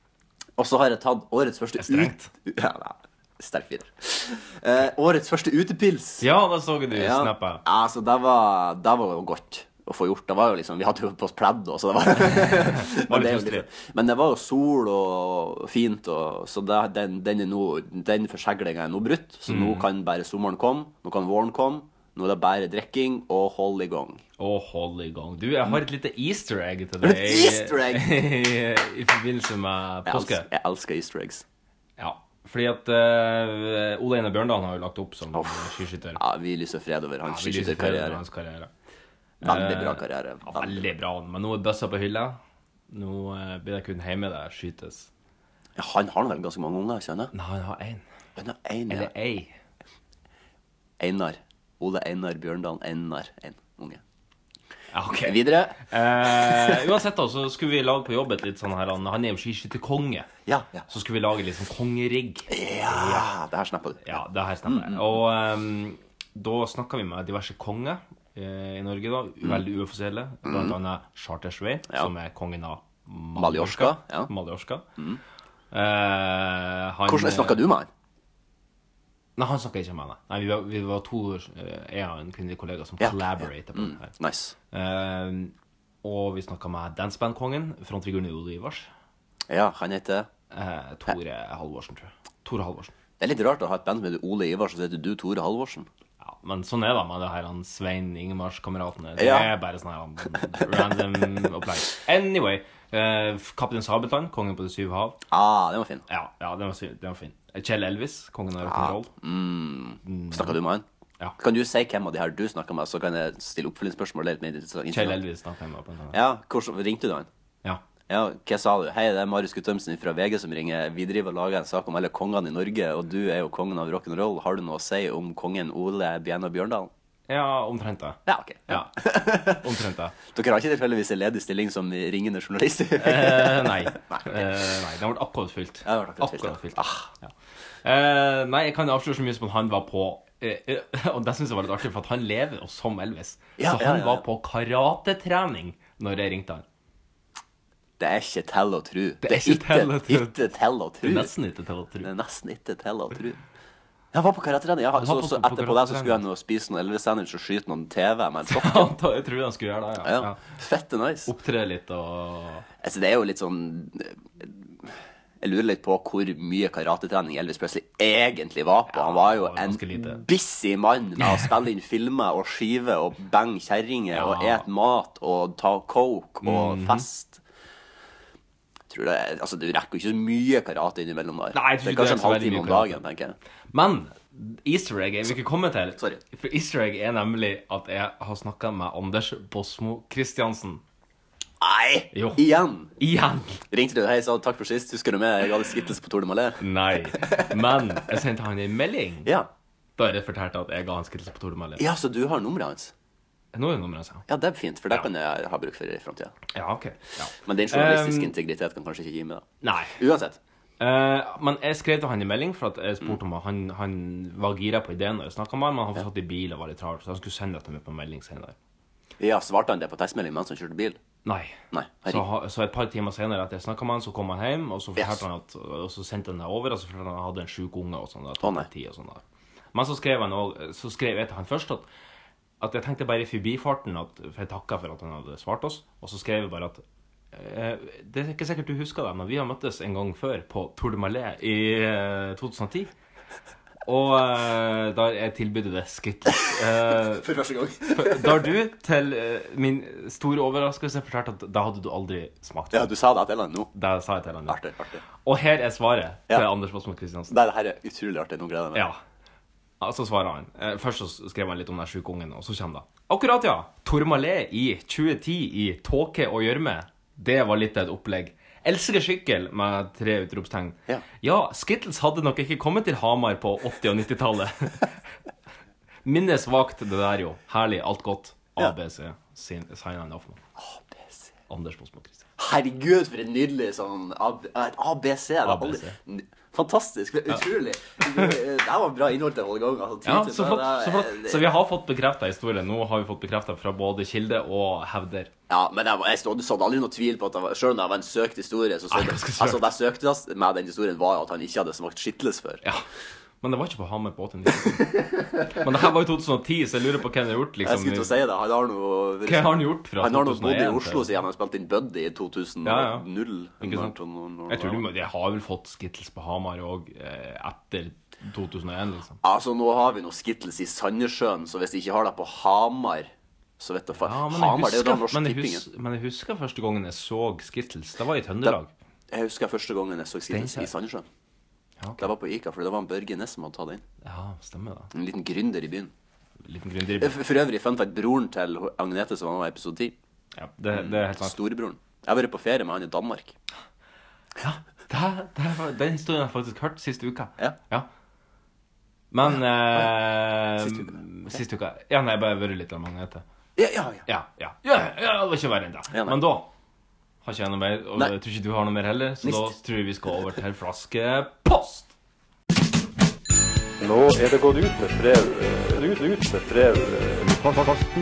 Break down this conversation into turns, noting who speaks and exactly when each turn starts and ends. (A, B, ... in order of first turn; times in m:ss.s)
0:00.6-0:06.3 A
0:01.8-0:02.3 B
0:06.2-0:07.6 B
0:06.9-0:24.2 A
0:12.3-0:13.7 B
0:19.5-0:19.8 B
0:24.4-0:30.5 B
0:27.0-0:28.1 A
0:30.0-0:31.4 A
0:32.0-0:36.2 B
0:35.3-0:38.2 A
0:37.2-0:38.7 B
0:39.4-0:42.4 B
0:39.4-0:40.8 A
0:42.9-0:45.1 B
0:45.8-0:47.3 A
0:47.3-0:48.0 B
0:48.4-0:49.1 A
0:48.9-0:49.6 B
0:51.0-0:54.0 A
0:54.9-1:00.3 B
0:55.2-0:56.8 A
1:00.4-1:00.9 A
1:00.9-1:03.3 B
1:02.5-1:05.2 A
1:04.0-1:14.8 B
1:10.4-1:10.7 A
1:13.4-1:14.3 A
1:15.7-1:17.6 B
1:17.1-1:17.9 A
1:19.4-1:24.1 B
1:23.0-1:24.6 A
1:24.7-1:28.9 B
1:29.5-1:30.3 A
1:30.5-1:32.9 B
1:33.2-1:35.9 A
1:36.2-1:45.2 B
1:39.2-1:39.5 A
1:45.3-1:46.0 A
1:46.1-1:49.1 B
1:48.6-1:50.8 A
1:50.0-1:50.6 B
1:51.4-1:55.2 A
1:54.9-1:56.2 B
1:56.1-1:57.3 A
1:58.1-2:06.9 A
2:07.3-2:10.2 B
2:08.3-2:09.6 A
2:10.3-2:14.5 A
2:13.0-2:17.3 B
2:15.8-2:17.1 A
2:17.8-2:26.6 B
2:23.6-2:24.2 A
2:28.0-2:31.3 A
2:29.2-2:30.3 B
2:31.0-2:32.1 B
2:32.0-2:33.4 A
2:34.1-2:38.9 A
2:35.0-2:36.2 B
2:38.5-2:40.4 B
2:40.0-2:41.3 A
2:41.2-2:42.6 B
2:42.8-2:44.5 A
2:45.4-2:57.4 A
2:48.9-2:50.2 B
2:54.1-2:54.6 B
2:56.4-2:57.0 B
2:58.9-3:03.4 A
3:01.5-3:03.0 B
3:03.7-3:10.8 B
3:06.0-3:06.2 A
3:11.6-3:12.9 A
3:12.1-3:12.4 B
3:13.0-3:13.6 B
3:13.7-3:16.6 A
3:16.6-3:19.3 B
3:20.0-3:21.8 B
3:21.8-3:22.9 A
3:23.5-3:24.2 B
3:24.3-3:26.3 A
3:26.5-3:28.3 B
3:27.4-3:30.4 A
3:29.6-3:30.0 B
3:30.8-3:38.6 B
3:39.2-3:41.0 A
3:41.2-3:49.2 B
3:41.7-3:42.2 A
3:48.4-3:48.7 A
3:49.7-3:51.9 B
3:52.6-4:02.9 B
4:03.8-4:07.3 B
4:07.2-4:08.4 A
4:07.9-4:12.9 B
4:12.7-4:13.7 A
4:13.7-4:14.6 B
4:14.5-4:15.0 A
4:15.2-4:17.3 B
4:17.3-4:18.8 A
4:18.7-4:19.0 B
4:19.8-4:34.9 B
4:36.0-4:40.4 B
4:40.6-4:41.3 A
4:41.5-4:42.3 B
4:42.4-4:51.4 A
4:45.4-4:46.0 B
4:50.0-4:55.3 B
4:55.5-5:02.6 A
4:58.9-4:59.7 B
5:03.4-5:08.1 B
5:07.6-5:14.8 A
5:09.2-5:11.1 B
5:12.6-5:13.1 B
5:13.6-5:14.0 B
5:14.5-5:19.2 B
5:19.2-5:25.6 A
5:24.0-5:28.7 B
5:29.1-5:31.0 A
5:30.3-5:30.7 B
5:31.8-5:32.1 B
5:32.0-5:33.8 A
5:34.0-5:34.9 B
5:34.9-5:35.9 A
5:36.4-5:37.2 B
5:37.0-5:39.9 A
5:40.3-5:41.4 B
5:40.7-5:43.3 A
5:44.9-5:47.9 B
5:49.1-5:53.2 B
5:50.6-5:51.0 A
5:53.6-5:54.0 A
5:54.1-5:56.5 B
5:55.9-5:56.2 A
5:57.2-6:01.9 B
5:59.2-5:59.5 A
6:03.8-6:07.3 C